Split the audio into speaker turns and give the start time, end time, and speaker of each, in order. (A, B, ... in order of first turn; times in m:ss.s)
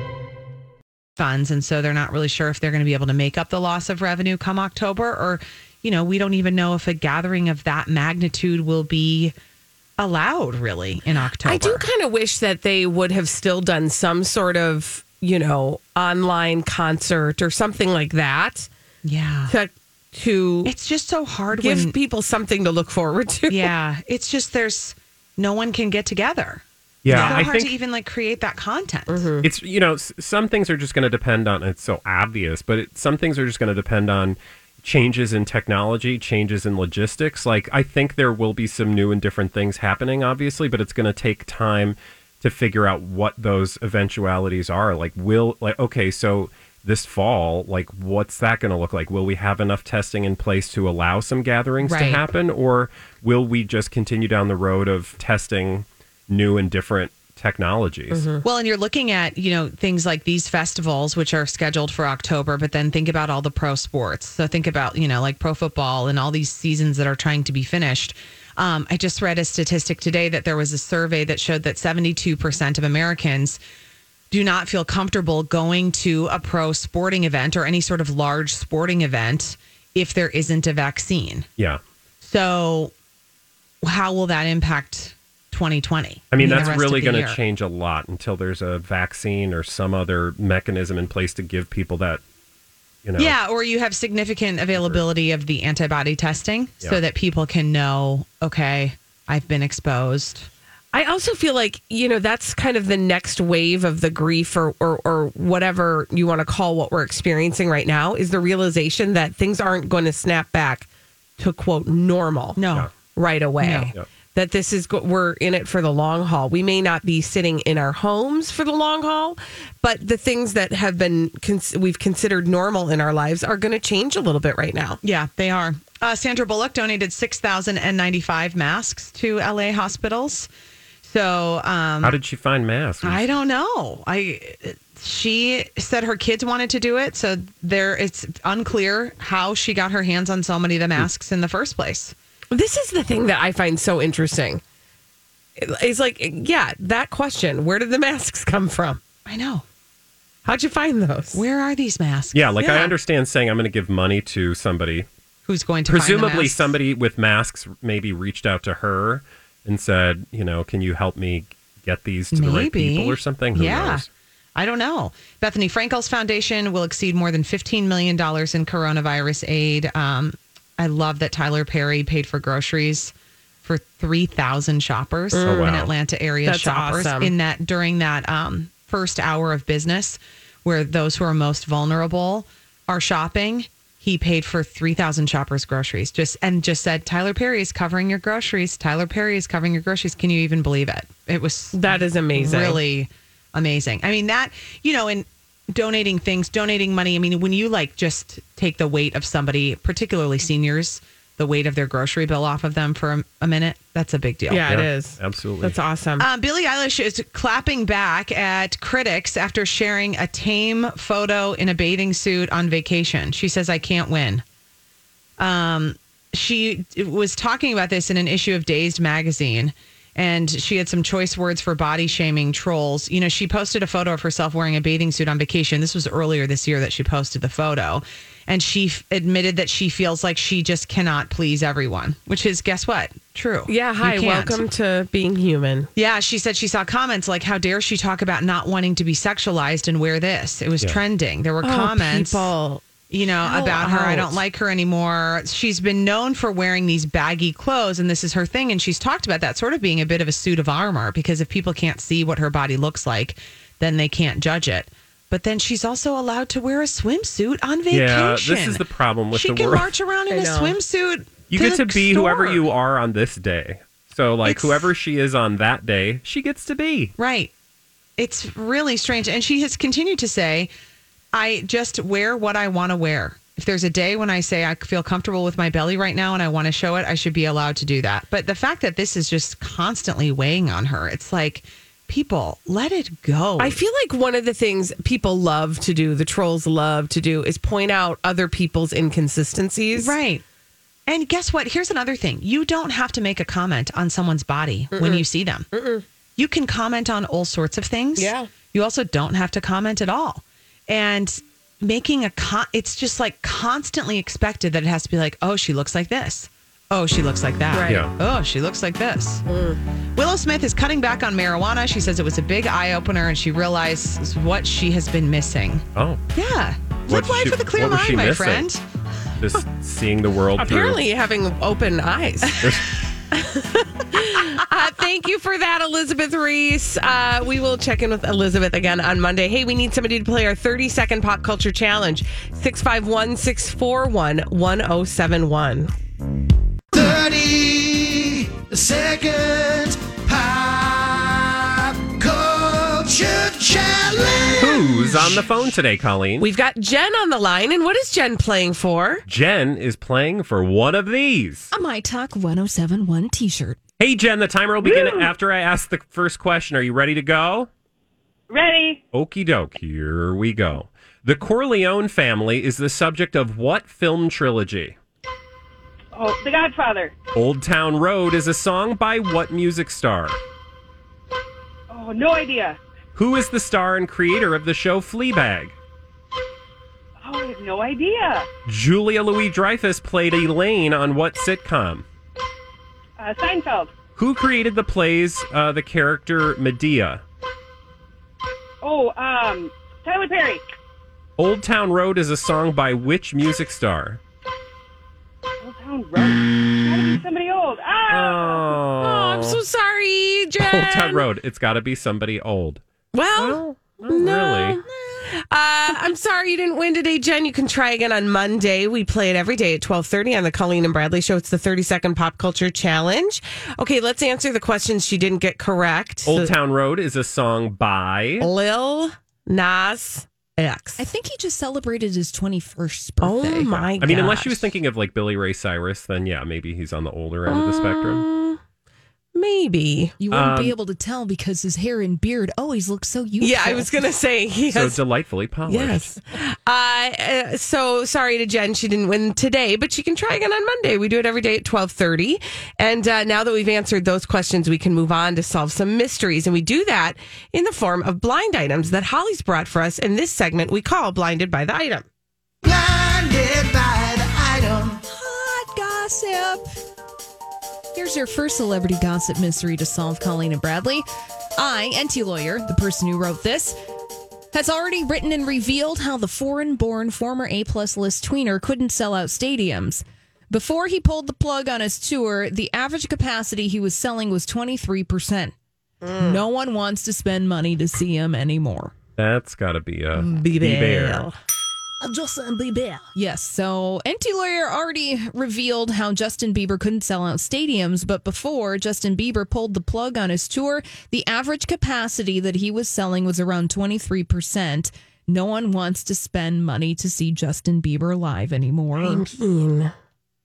0:01.2-0:09.3 A
0:10.0-0:11.9 A
0:11.4-0:18.7 B
0:19.0-0:19.5 A
0:19.5-0:20.7 B
0:20.6-0:22.0 A
0:21.5-0:23.7 B
0:23.5-0:29.3 A
0:27.0-0:27.7 C
0:27.1-0:27.5 B
0:29.1-0:29.5 B
0:29.4-0:58.2 C
0:51.8-0:52.2 A
0:58.1-0:58.4 B
0:58.4-1:13.6 A
1:14.3-1:21.5 A
1:22.2-1:22.9 A
1:23.8-1:27.4 A
1:26.3-1:32.2 C
1:33.0-1:33.3 C
1:33.2-1:40.5 A
1:40.9-1:52.6 B
1:52.5-1:52.9 A
1:53.1-2:05.0 B
1:53.6-1:53.9 A
2:05.0-2:10.5 A
2:11.0-2:12.2 A
2:12.0-2:13.3 C
2:13.0-2:22.1 A
2:22.5-2:24.6 B
2:25.6-2:29.0 B
2:29.2-2:29.6 A
2:30.4-2:31.4 B
2:31.3-2:32.9 A
2:32.3-2:35.1 C
2:35.4-2:36.8 A
2:35.9-2:44.0 C
2:42.3-3:24.7 A
2:55.3-2:55.8 B
2:55.4-2:55.9 C
2:56.4-2:57.3 B
3:11.7-3:12.8 B
3:24.5-3:26.3 B
3:24.6-3:25.8 C
3:26.2-3:34.4 A
3:35.4-3:54.6 A
3:53.7-3:55.9 B
3:56.0-4:02.5 A
4:01.6-4:02.8 B
4:03.1-4:22.6 A
4:03.4-4:04.4 B
4:17.9-4:19.9 C
4:20.3-4:20.8 B
4:21.5-4:27.1 C
4:24.4-4:24.9 A
4:27.2-4:27.5 A
4:28.2-4:30.7 A
4:31.3-4:43.8 A
4:43.6-4:50.1 B
4:49.9-4:50.4 A
4:51.1-4:55.7 A
4:54.9-4:56.0 B
4:56.4-5:09.4 A
4:58.2-4:58.5 B
5:07.7-5:08.0 B
5:09.5-5:09.8 B
5:10.2-5:18.8 A
5:16.0-5:16.2 C
5:17.1-5:18.7 C
5:19.4-5:21.0 C
5:20.6-5:35.9 B
5:22.6-5:23.0 C
5:36.9-5:45.4 D
5:44.6-5:46.4 C
5:46.4-5:49.2 B
5:49.2-5:51.7 C
5:51.7-5:53.8 E
5:54.0-5:57.7 C
5:54.8-5:55.3 F
5:58.5-5:59.0 F
5:59.1-6:05.0 C
6:06.1-6:07.1 F
6:07.3-6:10.4 C
6:11.9-6:12.8 F
6:13.2-6:15.8 C
6:17.2-6:18.5 F
6:18.6-6:22.0 C
6:23.2-6:23.9 F
6:24.2-6:27.2 C
6:28.8-6:30.6 F
6:31.4-6:34.2 C
6:35.6-6:38.8 F
6:38.1-6:39.6 C
6:39.0-6:41.3 B
6:40.6-6:42.8 C
6:43.1-6:56.5 B
6:43.3-6:44.8 C
6:56.3-6:58.5 C
6:58.4-7:01.0 B
7:01.0-7:03.7 E
7:03.2-7:04.7 B
7:03.7-7:08.2 C
7:07.5-7:08.6 B
7:09.3-7:10.2 B
7:10.2-7:13.9 E
7:10.3-7:10.7 C
7:13.4-7:15.0 B
7:14.7-7:16.2 C
7:15.6-7:32.0 B
7:32.6-7:35.0 D
7:35.1-7:36.6 E
7:37.9-7:41.0 E
7:41.6-7:43.7 E
7:44.5-7:55.5 E
7:56.0-7:56.4 B
7:56.2-7:58.9 E
7:59.2-8:01.3 C
8:00.4-8:01.4 B
8:02.0-8:19.3 E
8:19.0-8:19.9 B